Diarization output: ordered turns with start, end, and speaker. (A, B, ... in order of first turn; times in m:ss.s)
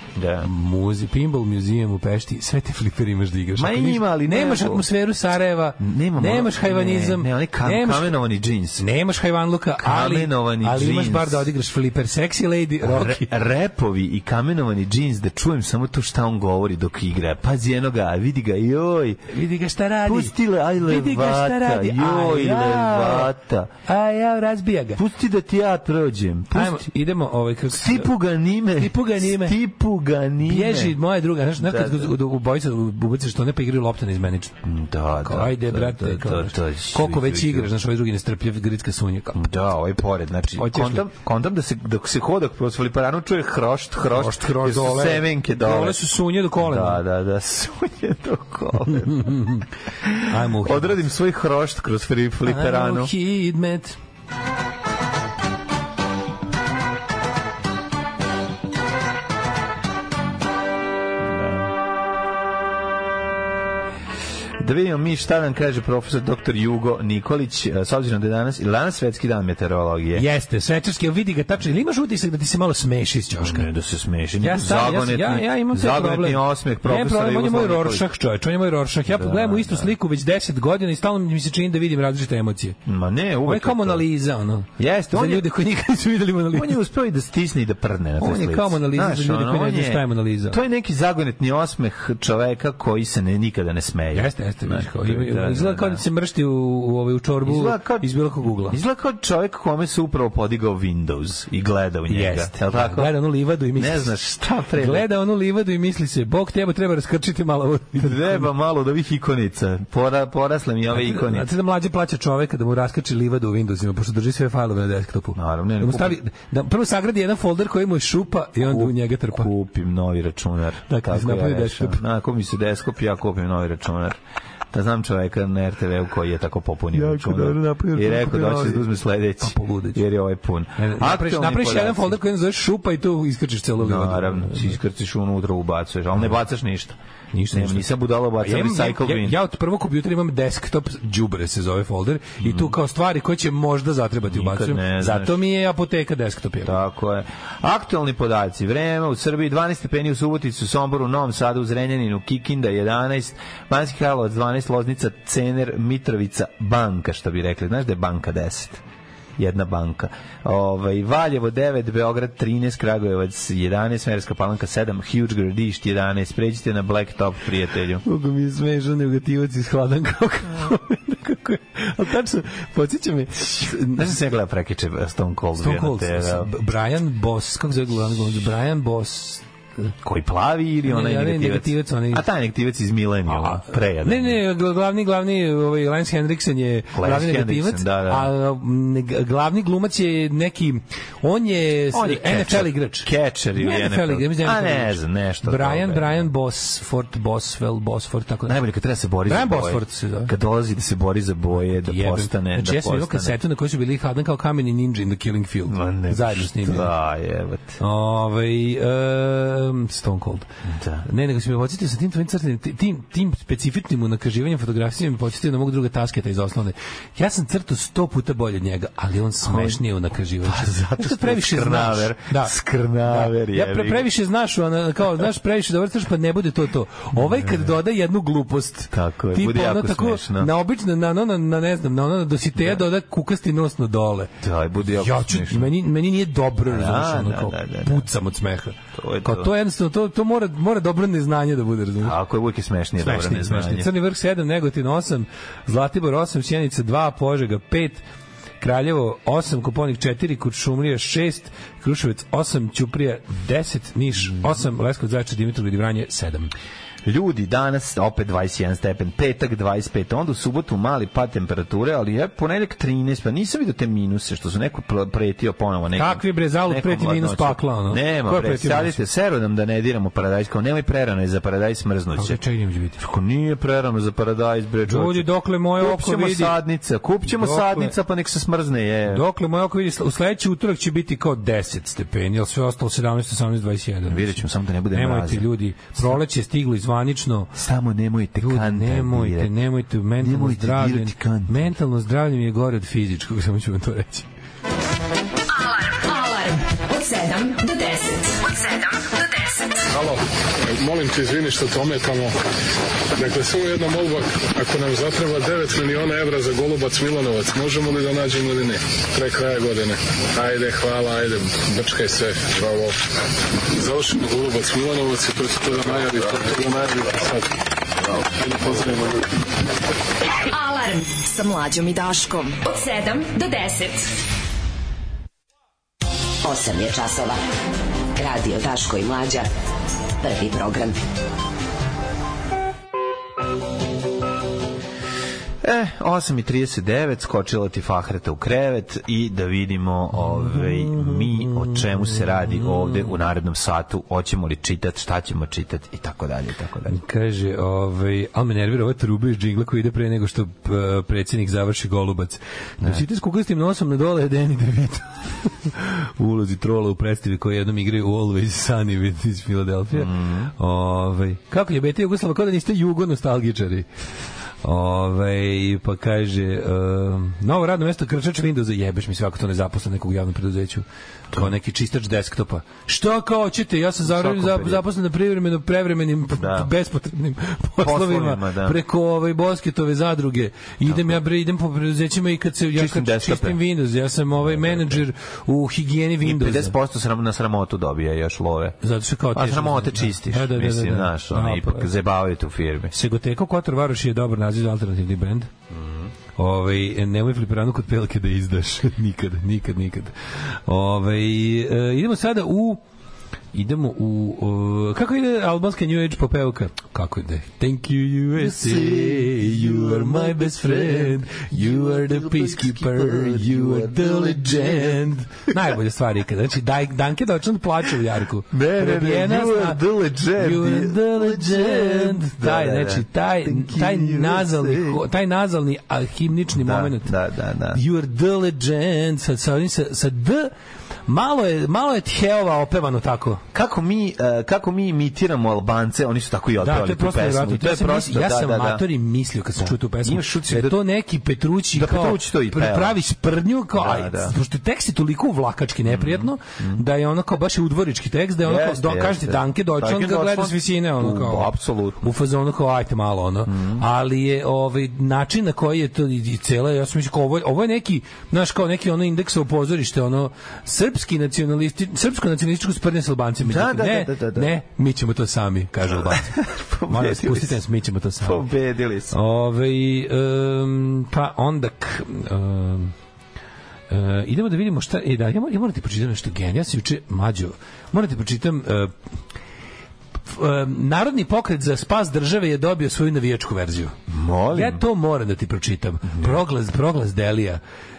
0:00.2-0:00.5 A
0:00.4-0:08.2 B
0:03.6-0:04.9 A
0:05.8-0:08.8 A
0:08.8-0:13.3 B
0:09.8-0:11.5 A
0:12.8-0:19.3 A
0:19.3-0:23.3 B
0:20.0-0:23.7 A
0:23.9-0:25.0 B
0:25.0-0:26.9 A
0:26.5-0:28.1 B
0:27.7-0:31.0 A
0:28.8-0:29.6 B
0:30.4-0:34.6 B
0:31.6-0:32.1 A
0:34.6-0:37.7 A
0:35.2-0:39.5 B
0:39.3-0:49.5 A
0:40.6-0:41.1 B
0:44.1-0:47.0 B
0:49.0-0:49.6 B
0:50.0-0:53.1 A
0:50.2-0:51.0 B
0:52.4-0:54.0 B
1:01.2-1:01.7 A
1:04.6-1:10.3 A
1:10.2-1:13.7 B
1:13.4-1:18.1 A
1:14.4-1:22.8 B
1:19.1-1:19.9 A
1:22.8-1:24.1 A
1:23.5-1:26.8 B
1:24.8-1:25.5 A
1:26.5-1:36.0 A
1:28.2-1:30.6 B
1:34.1-1:38.8 B
1:37.4-1:43.1 A
1:42.1-1:44.1 B
1:43.7-1:45.1 A
1:44.7-1:48.5 B
1:48.0-1:51.5 A
1:50.9-1:59.5 B
1:55.4-1:56.2 A
1:58.6-2:04.2 A
2:00.9-2:02.0 B
2:04.7-2:12.2 A
2:06.9-2:08.9 B
2:09.4-2:10.0 B
2:10.8-2:14.8 B
2:13.8-2:17.0 A
2:17.3-2:26.8 B
2:17.5-2:19.4 A
2:22.4-2:22.7 A
2:24.3-2:25.4 A
2:26.6-2:38.8 A
2:39.4-2:48.0 A
2:48.0-2:54.1 B
2:53.8-2:56.5 A
2:55.6-2:59.9 B
3:00.0-3:04.4 A
3:00.8-3:02.2 B
3:03.3-3:18.6 B
3:06.9-3:08.3 A
3:11.9-3:16.2 A
3:18.5-3:23.4 A
3:19.3-3:20.3 B
3:21.8-3:26.9 B
3:25.7-3:27.8 A
3:27.8-3:30.5 B
3:30.7-3:31.1 A
3:31.0-3:54.3 B
3:39.4-3:39.8 A
3:40.4-3:44.1 A
3:47.2-3:47.8 A
3:48.9-3:50.5 A
3:52.6-3:52.8 A
3:54.4-3:55.7 A
3:54.9-4:02.2 B
3:56.7-3:58.1 A
3:59.0-3:59.5 A
4:02.0-4:03.9 A
4:03.0-4:08.0 B
4:08.6-4:16.5 B
4:17.0-4:32.4 A
4:26.0-4:29.0 B
4:32.2-4:33.0 B
4:33.0-4:39.2 A
4:34.9-4:36.6 B
4:37.3-4:38.0 B
4:39.1-4:47.5 B
4:44.1-4:46.2 A
4:47.6-4:49.6 A
4:48.4-4:54.3 B
4:50.2-4:51.7 A
4:55.5-4:59.9 C
4:59.9-5:02.4 D
5:03.1-5:13.0 D
5:13.7-5:17.5 D
5:18.2-5:19.2 D
5:20.4-5:24.1 C
5:26.4-5:27.4 E
5:28.2-5:29.5 E
5:30.2-5:31.0 E
5:35.6-5:47.0 A
5:40.2-5:43.1 B
5:46.9-6:03.9 B
5:59.9-6:00.5 A
6:04.6-6:26.7 B
6:14.0-6:14.8 A
6:16.4-6:16.7 A
6:17.8-6:18.8 A
6:20.8-6:21.2 A
6:22.7-6:23.6 A
6:24.4-6:25.0 A
6:26.2-6:28.8 A
6:28.8-6:31.9 B
6:29.3-6:32.9 A
6:32.9-6:35.5 B
6:35.7-6:36.1 A
6:36.4-6:40.1 B
6:40.7-6:42.8 B
6:43.5-6:59.8 B
6:48.4-6:55.7 A
6:58.5-7:05.0 A
7:00.4-7:07.1 B
7:06.5-7:07.8 A
7:07.7-7:10.5 B
7:11.1-7:13.4 B
7:13.5-7:18.8 A
7:16.6-7:48.5 B
7:19.6-7:20.8 A
7:21.7-7:23.0 A
7:23.7-7:24.4 A
7:25.9-7:26.8 A
7:28.4-7:32.0 A
7:33.5-7:33.8 A
7:43.4-7:44.5 A
7:46.1-7:47.6 A
7:48.2-7:49.2 A
7:49.1-7:52.9 B
7:53.9-7:58.9 B
8:00.3-8:04.0 B
8:04.1-8:04.8 A
8:04.5-8:07.6 B
8:06.1-8:06.4 A